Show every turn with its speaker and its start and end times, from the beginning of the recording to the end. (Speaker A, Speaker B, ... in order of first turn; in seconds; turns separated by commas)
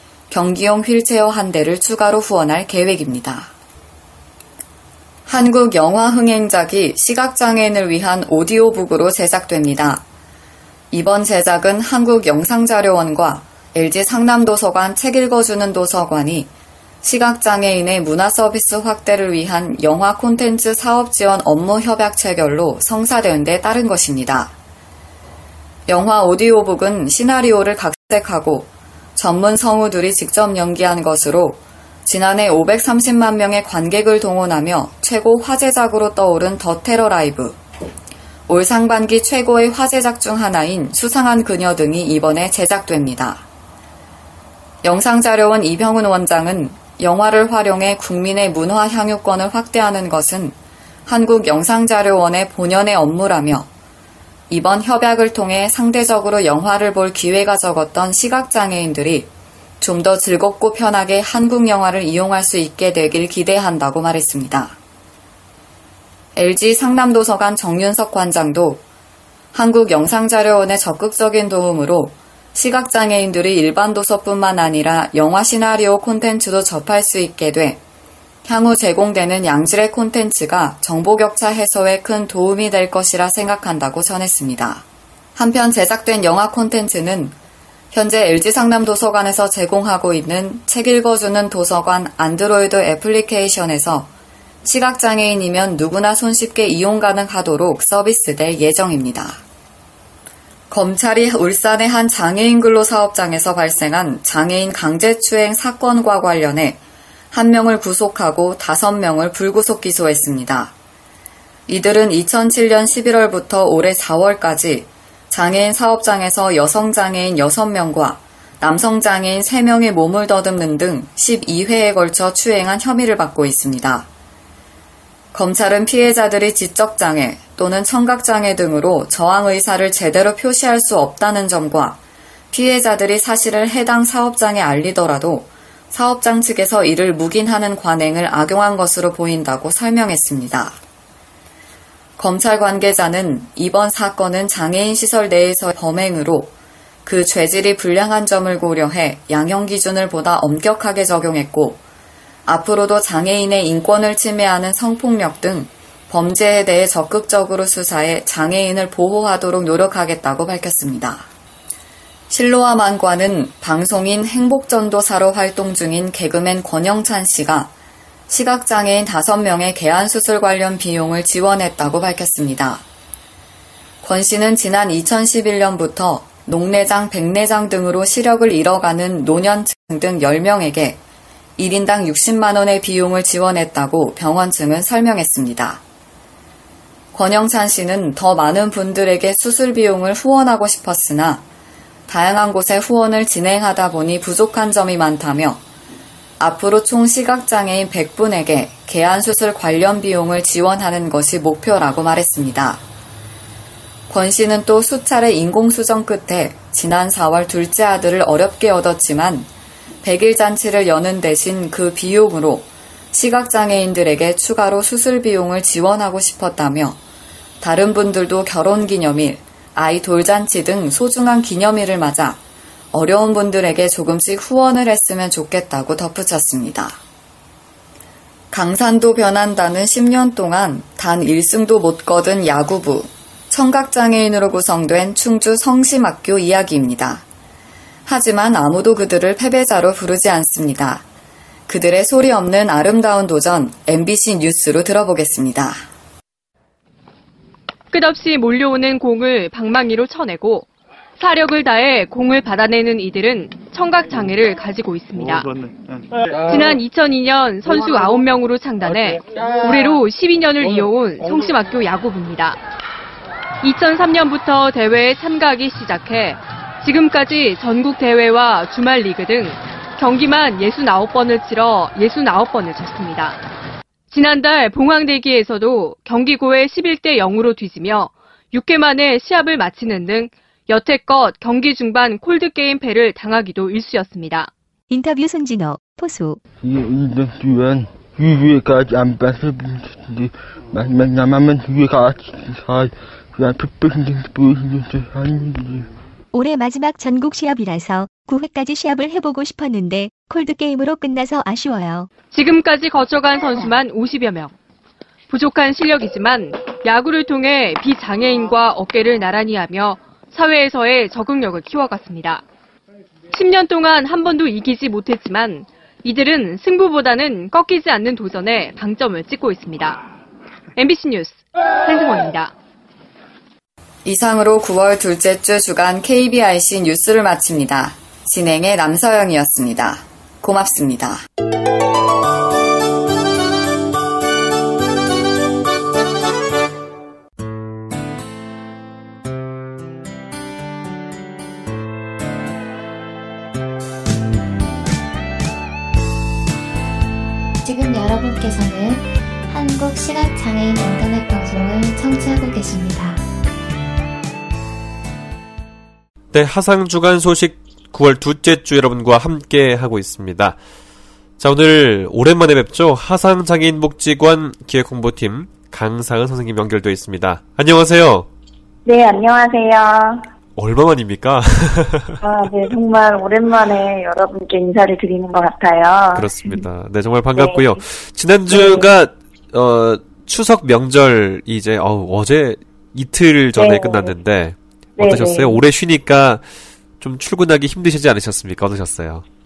Speaker A: 0.3-3.5, Speaker A: 5.2-10.0, Speaker A: 10.9-16.5, Speaker A: 17.0-24.5, Speaker A: 25.9-37.6, Speaker A: 38.5-43.5, Speaker A: 44.8-53.7, Speaker A: 54.5-59.3, Speaker A: 59.8-64.8, Speaker A: 66.3-68.8, Speaker A: 69.5-77.8, Speaker A: 78.4-84.8, Speaker A: 85.3-87.3, Speaker A: 87.9-94.1, Speaker A: 94.6-99.4, Speaker A: 100.7-106.8, Speaker A: 107.3-110.7, Speaker A: 111.7-124.1, Speaker A: 125.3-132.0, Speaker A: 132.5-140.8, Speaker A: 142.2-146.5, Speaker A: 147.0-151.8, Speaker A: 152.4-161.3, Speaker A: 162.3-167.7, Speaker A: 168.3-172.8, Speaker A: 174.0-181.0, Speaker A: 181.6-185.8, Speaker A: 187.1-191.4, Speaker A: 192.1-195.6, Speaker A: 196.4-202.8, Speaker A: 204.1-209.5, Speaker A: 210.0-217.0, Speaker A: 217.6-222.4, Speaker A: 222.9-227.0, Speaker A: 228.5-237.2, Speaker A: 238.1-241.0, Speaker A: 241.7-245.8, Speaker B: 247.9-255.6, Speaker B: 256.4-262.6, Speaker B: 263.6-273.4, Speaker B: 274.1-284.5, Speaker C: 284.9-286.4, Speaker D: 286.6-295.9, Speaker C: 296.3-302.1, Speaker B: 302.3-304.6, Speaker B: 305.3-312.4, Speaker B: 313.3-320.0, Speaker B: 320.8-322.5, Speaker A: 324.0-331.2, Speaker C: 347.6-353.2, Speaker E: 356.3-360.6, Speaker E: 361.4-368.3, Speaker F: 368.9-370.3, Speaker E: 370.6-372.2, Speaker F: 372.2-376.6, Speaker E: 376.1-386.4, Speaker F: 377.4-377.8, Speaker F: 378.5-378.9, Speaker F: 383.6-384.2, Speaker F: 385.0-385.6, Speaker E: 387.0-389.2